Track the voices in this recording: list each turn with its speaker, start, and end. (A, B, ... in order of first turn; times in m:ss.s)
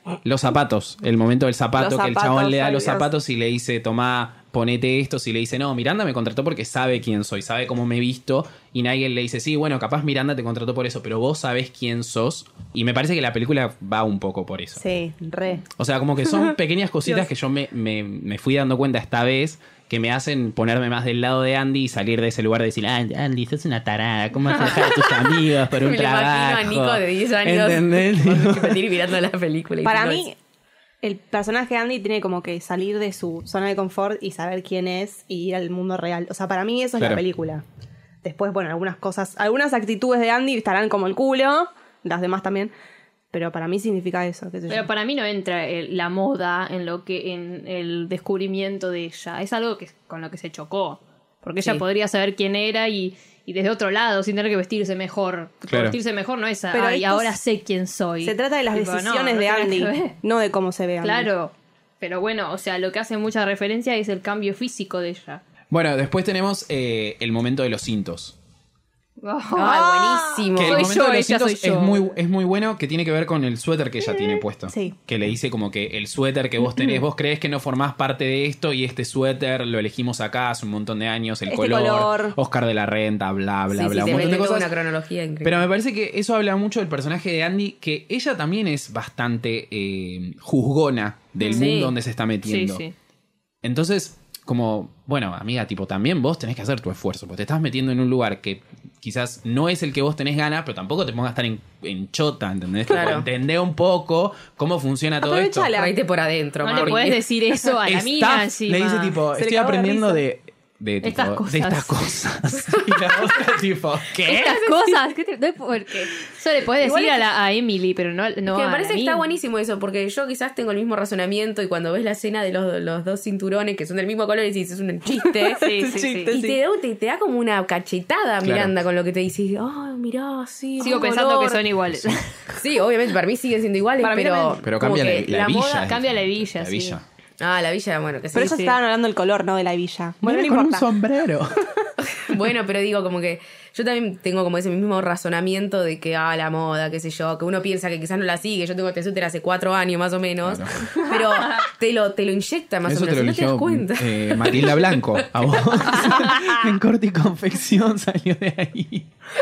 0:00.2-0:14.8 A
0:01.8-0:03.1 B
0:14.8-0:15.6 B
0:15.8-0:28.8 A
0:24.6-0:30.2 C
0:29.8-0:30.4 B
0:31.0-0:37.6 B
0:38.2-0:42.7 B
0:43.3-0:44.9 B
0:44.7-1:00.2 D
0:55.7-0:56.0 A
0:56.7-0:57.4 B
0:58.2-1:01.3 B
1:01.0-1:05.4 D
1:05.7-1:08.4 A
1:09.2-1:12.0 D
1:09.5-1:10.9 C
1:09.6-1:10.5 B
1:10.5-1:24.7 A
1:14.0-1:14.9 B
1:21.4-1:22.4 B
1:23.7-1:25.6 C
1:25.4-1:32.8 A
1:31.4-1:31.7 D
1:31.5-1:31.9 C
1:32.4-1:32.9 D
1:33.6-1:45.7 A
1:42.9-1:43.3 C
1:45.2-1:46.0 B
1:45.7-1:47.0 C
1:46.6-1:47.2 A
1:46.7-1:49.2 D
1:47.8-1:54.7 A
1:49.3-1:50.2 B
1:51.0-1:51.9 D
1:52.7-1:53.4 C
1:54.2-1:59.3 D
1:58.5-2:05.7 C
2:05.5-2:06.6 B
2:05.5-2:06.4 D
2:06.3-2:11.6 C
2:08.4-2:08.7 A
2:10.8-2:12.3 D
2:10.9-2:11.6 B
2:11.9-2:12.2 A
2:12.5-2:15.9 C
2:14.0-2:14.6 B
2:14.6-2:17.0 A
2:15.8-2:17.0 D
2:17.4-2:18.7 C
2:18.3-2:20.9 B
2:18.4-2:18.7 D
2:20.2-2:21.7 A
2:22.0-2:36.2 C
2:30.4-2:30.7 A
2:32.8-2:39.1 A